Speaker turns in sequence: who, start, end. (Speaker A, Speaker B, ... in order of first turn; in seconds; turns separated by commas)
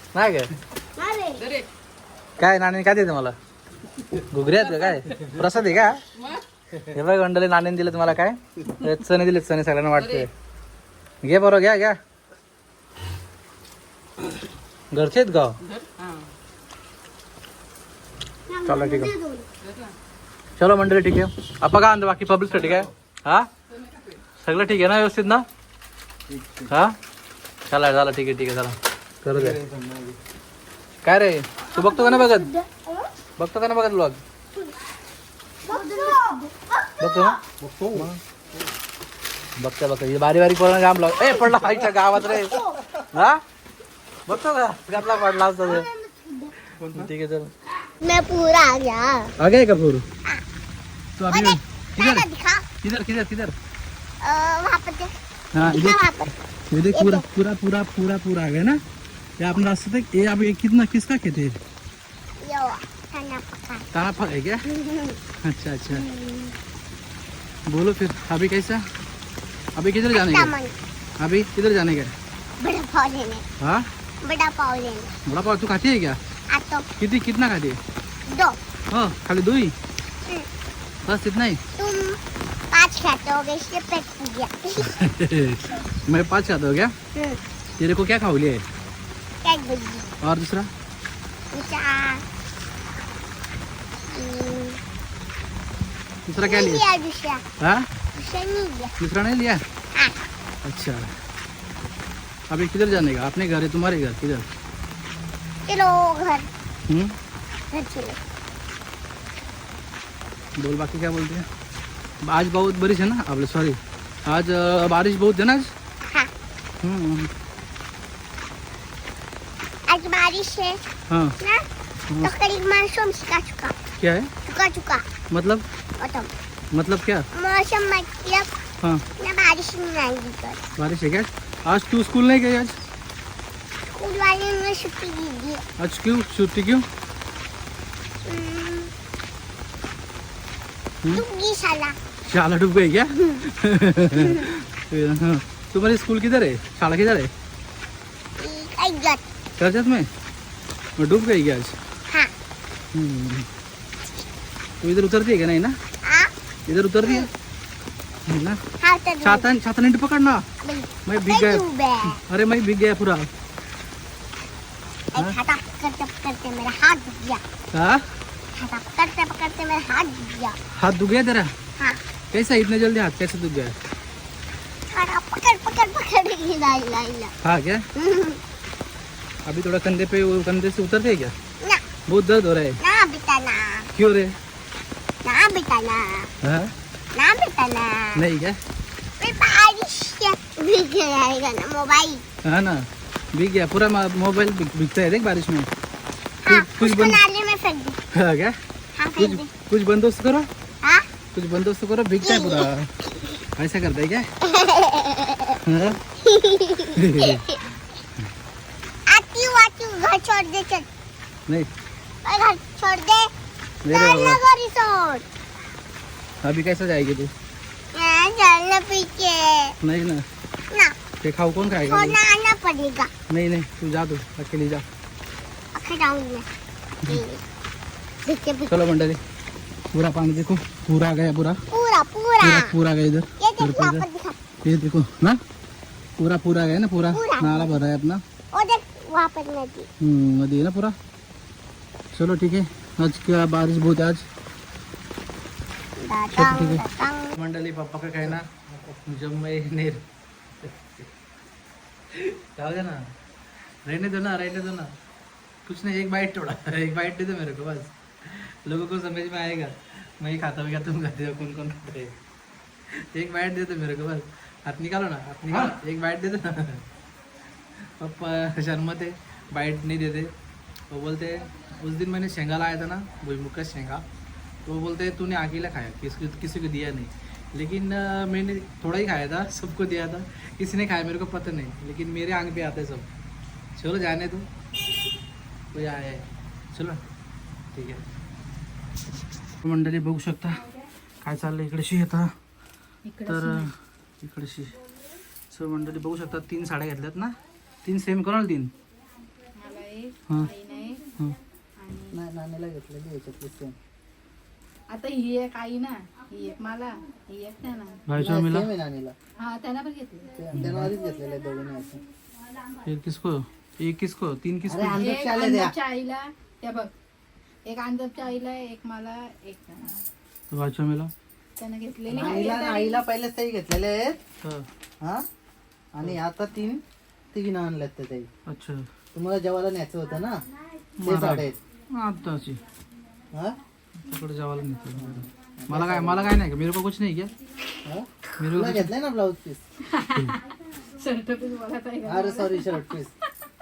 Speaker A: 0.1-0.5, Speaker B: 1.0-1.5, Speaker A: 2.4-3.4, Speaker A: 4.3-6.0, Speaker A: 6.9-10.3, Speaker A: 11.2-12.0, Speaker A: 14.9-15.6, Speaker C: 15.7-16.1, Speaker B: 18.5-19.4, Speaker A: 18.6-19.1, Speaker C: 19.6-19.9, Speaker A: 20.6-23.5, Speaker A: 24.4-25.4, Speaker D: 26.3-26.7, Speaker A: 26.7-26.9, Speaker A: 27.7-29.6, Speaker D: 29.3-30.2, Speaker A: 31.0-32.5, Speaker B: 31.7-33.1, Speaker A: 33.4-34.2, Speaker B: 35.6-37.3, Speaker A: 37.0-37.4, Speaker D: 37.5-38.6, Speaker A: 37.9-38.2, Speaker A: 39.6-43.4, Speaker B: 42.3-42.8, Speaker A: 44.3-45.9, Speaker B: 45.1-46.5, Speaker D: 46.8-47.1, Speaker A: 46.9-47.5, Speaker B: 48.0-49.3, Speaker A: 49.4-50.0, Speaker A: 51.2-52.3, Speaker B: 51.3-52.6, Speaker A: 52.8-53.5, Speaker B: 54.2-56.3, Speaker A: 55.5-56.0, Speaker A: 56.7-58.8, Speaker B: 56.9-57.2, Speaker A: 59.4-61.6, Speaker B: 62.4-63.9, Speaker A: 63.9-64.6, Speaker B: 64.7-65.2, Speaker A: 65.4-66.0, Speaker B: 65.9-66.5, Speaker A: 67.7-68.9, Speaker A: 69.8-70.5, Speaker B: 70.1-70.7, Speaker A: 71.2-72.1, Speaker B: 72.6-73.4, Speaker A: 73.6-73.8, Speaker B: 74.2-75.1, Speaker A: 75.2-76.2, Speaker B: 76.5-76.8, Speaker A: 77.0-77.8, Speaker B: 78.2-78.5, Speaker A: 78.9-79.8, Speaker A: 81.0-81.6, Speaker B: 81.8-82.2, Speaker B: 82.7-84.9, Speaker A: 84.8-86.9, Speaker B: 87.1-87.4, Speaker A: 87.8-88.6, Speaker B: 89.4-90.1, Speaker A: 90.2-90.7, Speaker B: 91.5-92.2, Speaker B: 94.1-94.8, Speaker A: 96.3-96.8, Speaker B: 96.4-97.4, Speaker A: 97.6-97.9, Speaker B: 98.1-98.9, Speaker A: 99.0-99.6, Speaker A: 100.6-101.1, Speaker A: 102.5-104.4, Speaker B: 105.7-106.5, Speaker A: 106.9-107.1, Speaker B: 107.7-108.2, Speaker A: 110.6-111.5, Speaker A: 112.2-115.7, Speaker A: 116.8-117.3, Speaker B: 119.9-120.8, Speaker A: 121.1-121.3, Speaker B: 121.4-121.7, Speaker B: 122.2-123.8, Speaker A: 124.0-124.3, Speaker B: 124.5-125.0, Speaker A: 125.3-125.6, Speaker B: 126.0-126.3, Speaker A: 126.7-127.3, Speaker B: 127.3-128.5, Speaker B: 129.2-130.6, Speaker A: 130.8-132.8, Speaker B: 133.8-135.6, Speaker A: 135.8-136.8, Speaker B: 138.2-138.9, Speaker B: 141.1-141.9, Speaker A: 142.3-147.3, Speaker B: 148.4-149.2, Speaker A: 149.6-150.1, Speaker A: 151.0-151.8, Speaker A: 152.9-153.4, Speaker A: 154.8-155.8, Speaker B: 156.0-156.3, Speaker A: 156.7-157.3, Speaker B: 157.0-157.3, Speaker A: 158.3-158.6, Speaker B: 158.8-159.5, Speaker A: 159.2-160.4, Speaker B: 160.6-162.2, Speaker A: 161.1-163.3, Speaker B: 165.1-167.4, Speaker A: 167.7-168.0, Speaker B: 168.6-170.6, Speaker A: 170.8-171.5, Speaker A: 172.3-173.8, Speaker B: 174.9-177.3, Speaker A: 177.4-177.8, Speaker B: 177.9-178.4, Speaker A: 179.4-181.3, Speaker A: 182.1-182.8, Speaker B: 182.8-183.9, Speaker A: 183.9-184.3, Speaker B: 185.2-186.3, Speaker A: 186.4-186.7, Speaker B: 187.1-188.2, Speaker A: 188.1-188.6, Speaker B: 189.2-192.2, Speaker A: 192.4-195.7, Speaker B: 196.4-198.0, Speaker A: 196.5-197.2, Speaker A: 198.1-198.6, Speaker B: 199.0-199.5, Speaker A: 199.2-200.5, Speaker A: 201.3-202.9, Speaker B: 202.2-202.7, Speaker A: 203.6-204.3, Speaker B: 204.4-207.6, Speaker A: 205.6-206.0, Speaker A: 206.9-207.5, Speaker B: 209.1-210.8, Speaker B: 212.2-213.3, Speaker A: 213.8-214.4, Speaker B: 213.9-215.2, Speaker A: 216.4-217.3, Speaker B: 217.9-219.7, Speaker A: 219.8-220.2, Speaker A: 221.2-222.2, Speaker B: 221.8-223.1, Speaker A: 223.3-224.8, Speaker B: 225.7-226.4, Speaker B: 227.1-227.4, Speaker B: 228.2-228.8, Speaker A: 228.7-229.2, Speaker A: 229.9-231.6, Speaker B: 231.7-232.7, Speaker A: 232.4-234.1, Speaker B: 233.4-234.4, Speaker A: 234.6-235.4, Speaker A: 236.2-238.2, Speaker B: 237.1-237.7, Speaker B: 238.5-239.9, Speaker A: 240.0-240.9, Speaker A: 242.1-244.2, Speaker B: 246.0-247.3, Speaker A: 246.3-248.5, Speaker D: 248.2-249.0, Speaker A: 249.0-250.0, Speaker A: 252.1-253.0, Speaker A: 253.8-254.9, Speaker A: 255.7-262.1, Speaker A: 263.0-266.8, Speaker A: 268.0-270.3, Speaker A: 270.9-274.0, Speaker A: 274.6-283.1, Speaker A: 283.8-284.5, Speaker A: 285.7-287.0, Speaker A: 287.7-288.0, Speaker A: 289.6-290.6, Speaker A: 291.2-292.3, Speaker C: 293.0-293.7, Speaker A: 293.3-294.8, Speaker A: 295.5-298.7, Speaker C: 299.5-301.1, Speaker C: 301.8-302.2, Speaker D: 302.1-303.8, Speaker C: 304.9-308.0, Speaker A: 308.1-308.7, Speaker D: 308.1-309.1, Speaker C: 309.4-310.4, Speaker D: 310.4-312.0, Speaker A: 310.5-310.9, Speaker A: 312.8-315.2, Speaker D: 314.6-315.7, Speaker C: 314.9-316.9, Speaker C: 317.6-319.9, Speaker A: 320.5-321.1, Speaker C: 321.6-323.0, Speaker D: 322.1-324.2, Speaker D: 325.0-325.2, Speaker D: 325.9-326.8, Speaker D: 327.3-328.3, Speaker A: 328.5-328.9, Speaker D: 329.1-330.4, Speaker A: 331.0-332.6, Speaker D: 331.0-331.6, Speaker D: 333.3-333.6, Speaker A: 334.0-337.3, Speaker D: 334.9-336.4, Speaker D: 337.8-339.6, Speaker A: 338.4-338.9, Speaker C: 339.8-342.9, Speaker A: 340.1-340.4, Speaker D: 342.0-343.1